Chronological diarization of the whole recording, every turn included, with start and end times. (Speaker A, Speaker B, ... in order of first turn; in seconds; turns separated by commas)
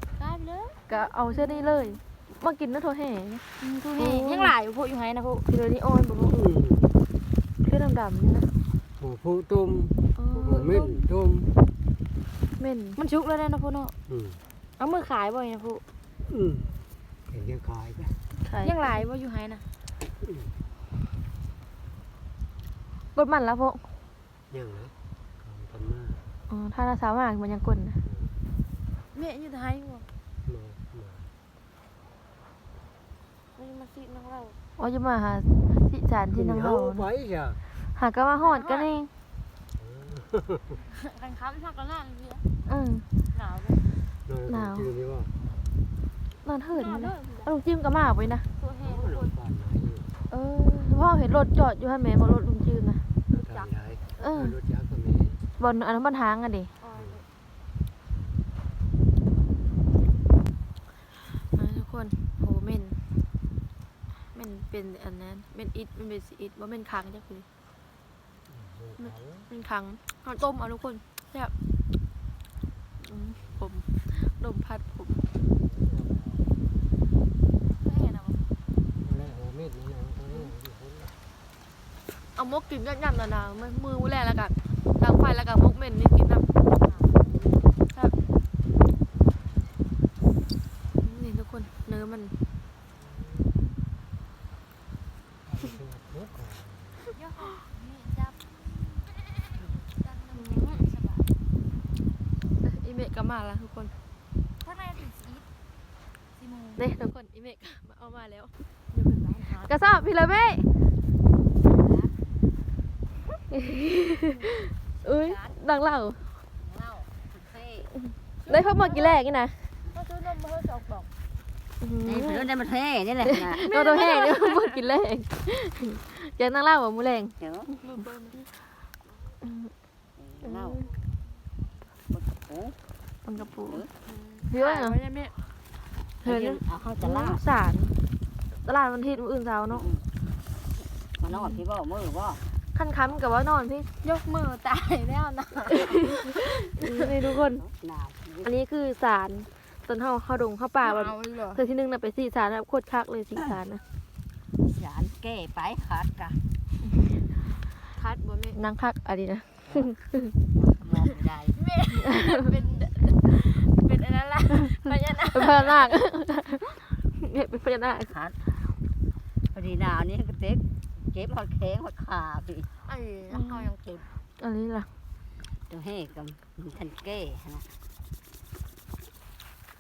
Speaker A: 0.2-2.0, Speaker B: 0.9-3.5, Speaker A: 3.6-5.5, Speaker B: 4.0-4.5, Speaker B: 5.5-6.4, Speaker C: 6.3-6.9, Speaker B: 7.6-8.5, Speaker C: 9.0-11.5, Speaker B: 10.2-10.9, Speaker A: 10.3-10.9, Speaker B: 12.6-13.0, Speaker A: 12.9-13.9, Speaker C: 14.1-14.4, Speaker A: 14.8-15.8, Speaker C: 16.2-18.2, Speaker B: 18.4-19.0, Speaker A: 18.6-19.6, Speaker C: 20.2-20.5, Speaker B: 23.1-23.9, Speaker C: 24.5-26.3, Speaker B: 26.5-28.0, Speaker C: 28.0-28.4, Speaker A: 29.1-30.1, Speaker C: 30.4-31.3, Speaker A: 33.6-34.6, Speaker B: 34.8-37.0, Speaker C: 36.3-37.6, Speaker B: 37.9-39.1, Speaker A: 38.4-38.9, Speaker C: 39.8-40.8, Speaker A: 40.9-42.4, Speaker B: 42.7-43.1, Speaker A: 43.3-43.9, Speaker C: 44.2-45.3, Speaker B: 44.5-44.9, Speaker B: 46.4-48.4, Speaker A: 46.7-47.5, Speaker A: 48.6-49.3, Speaker C: 48.8-50.1, Speaker B: 50.3-53.0, Speaker C: 53.3-55.4, Speaker A: 53.3-53.7, Speaker B: 54.2-54.5, Speaker B: 55.6-56.7, Speaker A: 56.8-57.2, Speaker C: 56.9-57.2, Speaker B: 61.4-63.0, Speaker B: 64.3-67.5, Speaker C: 68.5-69.5, Speaker B: 69.0-71.5, Speaker B: 73.0-75.2, Speaker C: 73.3-73.7, Speaker C: 75.4-76.7, Speaker A: 77.8-78.5, Speaker C: 79.0-81.2, Speaker B: 82.3-86.5, Speaker A: 86.8-87.1, Speaker C: 87.0-87.8, Speaker B: 91.0-92.4, Speaker C: 92.9-93.6, Speaker C: 95.4-97.0, Speaker A: 97.1-98.6, Speaker A: 99.6-101.3, Speaker B: 100.3-100.9, Speaker B: 102.6-103.9, Speaker A: 104.6-105.5, Speaker A: 106.3-106.9, Speaker B: 106.8-108.5, Speaker A: 108.9-110.0, Speaker B: 109.6-110.7, Speaker D: 111.8-112.1, Speaker B: 113.5-116.3, Speaker D: 115.0-115.6, Speaker D: 116.6-117.9, Speaker B: 117.9-119.7, Speaker A: 118.4-119.2, Speaker A: 119.9-121.1, Speaker B: 121.8-122.5, Speaker D: 122.0-123.6, Speaker B: 123.2-128.1, Speaker A: 123.6-124.8, Speaker D: 127.4-127.7, Speaker A: 127.8-128.4, Speaker B: 129.4-129.7, Speaker D: 130.2-130.8, Speaker B: 130.4-130.9, Speaker D: 132.1-132.8, Speaker B: 133.2-133.9, Speaker D: 133.6-133.9, Speaker A: 134.1-135.5, Speaker B: 134.5-135.0, Speaker B: 136.2-137.9, Speaker D: 136.2-137.4, Speaker B: 138.6-139.9, Speaker D: 139.7-140.0, Speaker D: 141.2-142.4, Speaker B: 141.3-141.6, Speaker B: 142.7-143.9, Speaker A: 144.0-147.1, Speaker B: 145.7-147.6, Speaker D: 147.6-148.5, Speaker B: 148.4-153.8, Speaker A: 150.8-151.6, Speaker D: 154.6-156.4, Speaker A: 157.9-158.6, Speaker B: 158.5-160.3, Speaker D: 160.6-161.6, Speaker A: 161.6-165.9, Speaker B: 161.9-162.5, Speaker B: 165.3-168.1, Speaker D: 168.1-168.4, Speaker D: 169.5-172.7, Speaker A: 172.8-174.1, Speaker B: 173.3-173.7, Speaker B: 174.4-174.9, Speaker D: 175.7-177.7